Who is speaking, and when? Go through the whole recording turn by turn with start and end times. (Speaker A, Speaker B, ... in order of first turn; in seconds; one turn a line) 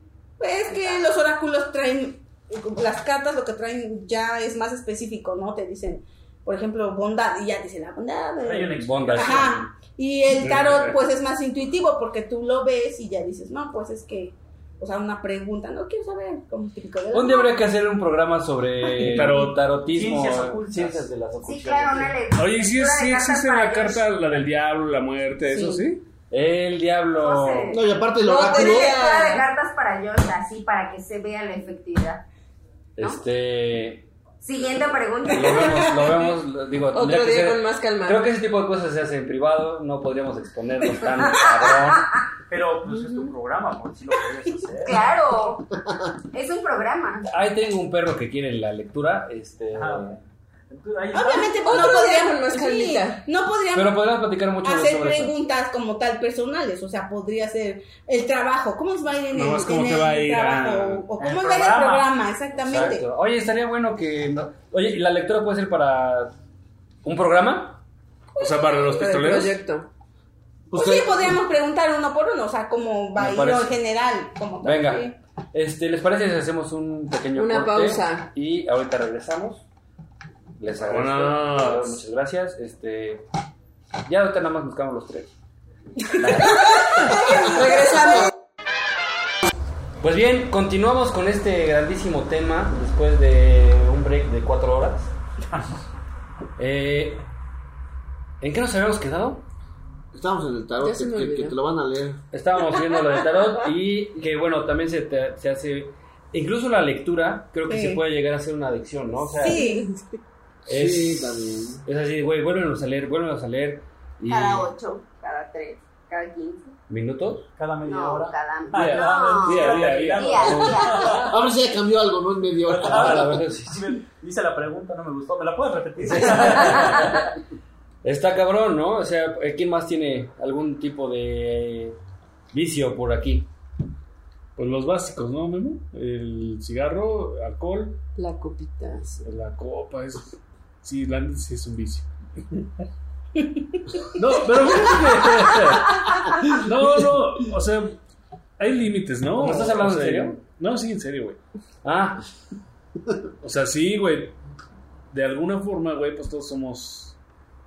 Speaker A: 0.4-17.6
Speaker B: 0.7-1.1
Speaker C: 8.4-9.6
Speaker D: 8.8-9.7
Speaker E: 10.4-10.9
Speaker D: 17.1-22.2
Speaker E: 18.9-19.6
Speaker C: 19.9-21.1
Speaker B: 21.4-24.1
Speaker E: 22.3-26.0
Speaker A: 25.5-25.8
Speaker D: 26.3-27.8
Speaker B: 27.2-27.8
Speaker F: 27.7-29.0
Speaker G: 28.2-29.5
Speaker B: 28.5-32.2
Speaker D: 33.0-34.1
Speaker B: 34.4-36.0
Speaker D: 35.3-42.1
Speaker G: 35.8-36.2
Speaker G: 36.9-38.2
Speaker C: 42.5-45.1
Speaker G: 42.9-43.3
Speaker B: 44.8-45.7
Speaker B: 46.3-47.2
Speaker D: 47.2-50.2
Speaker C: 49.7-51.9
Speaker A: 51.1-54.0
Speaker G: 51.5-53.2
Speaker D: 53.7-55.3
Speaker A: 54.6-63.0
Speaker E: 59.3-61.0
Speaker C: 61.2-62.1
Speaker D: 62.6-66.3
Speaker D: 67.0-67.8
Speaker E: 68.4-69.6
Speaker G: 68.5-69.9
Speaker F: 70.7-71.3
Speaker A: 70.7-75.1
Speaker D: 73.2-73.7
Speaker D: 74.6-79.6
Speaker G: 77.3-78.3
Speaker D: 80.6-83.2
Speaker E: 80.7-82.0
Speaker D: 84.0-85.3
Speaker D: 86.2-86.6
Speaker G: 86.3-88.3
Speaker D: 90.0-95.1
Speaker D: 96.6-97.2
Speaker D: 98.4-99.4
Speaker F: 100.1-102.2
Speaker G: 100.8-101.6
Speaker D: 102.3-109.6
Speaker A: 107.7-108.0
Speaker A: 109.4-109.9
Speaker G: 109.4-110.2
Speaker F: 110.7-111.8
Speaker D: 110.7-114.7
Speaker B: 114.3-116.7
Speaker D: 116.9-117.5
Speaker C: 117.6-121.4
Speaker B: 117.8-121.2
Speaker E: 118.7-120.8
Speaker F: 121.1-123.3
Speaker C: 122.6-127.3
Speaker D: 122.8-123.8
Speaker D: 126.0-127.3
Speaker D: 128.0-132.0
Speaker D: 132.5-133.5
Speaker E: 134.6-138.0
Speaker G: 138.2-139.3
Speaker E: 139.2-142.7
Speaker E: 144.1-148.0
Speaker E: 148.6-151.4
Speaker D: 149.3-150.4
Speaker D: 151.8-152.2
Speaker E: 153.4-154.4
Speaker E: 155.1-157.2